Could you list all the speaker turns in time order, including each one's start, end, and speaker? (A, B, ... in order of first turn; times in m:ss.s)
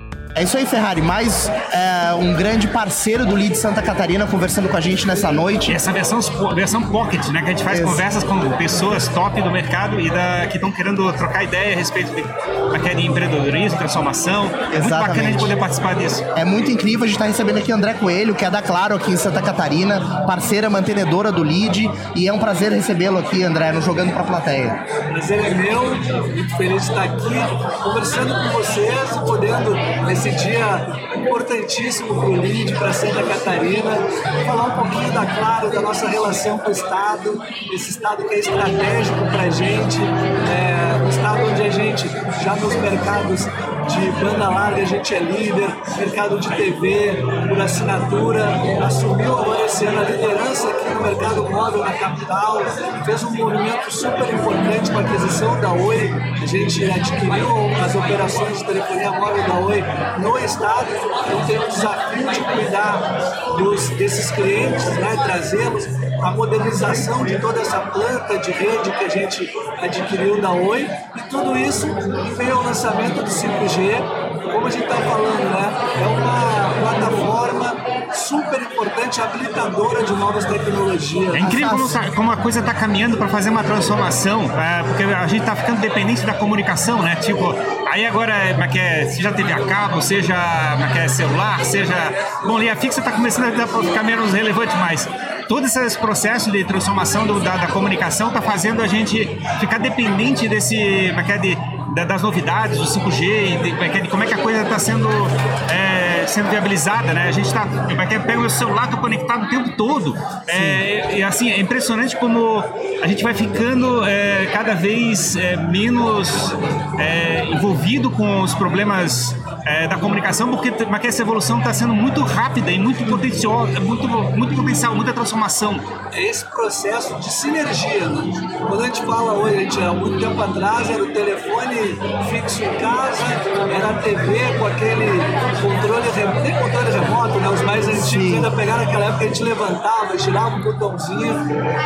0:00.4-0:05.8 A
0:05.7-0:16.2 B
0:07.7-0:08.0 A
0:14.7-0:15.6 A
0:16.4-0:24.8 A
0:25.1-1:21.5 C
1:21.3-2:05.9 B
1:21.4-1:22.0 A
1:50.5-1:50.8 A
2:06.1-2:21.5 C
2:17.9-2:18.5 A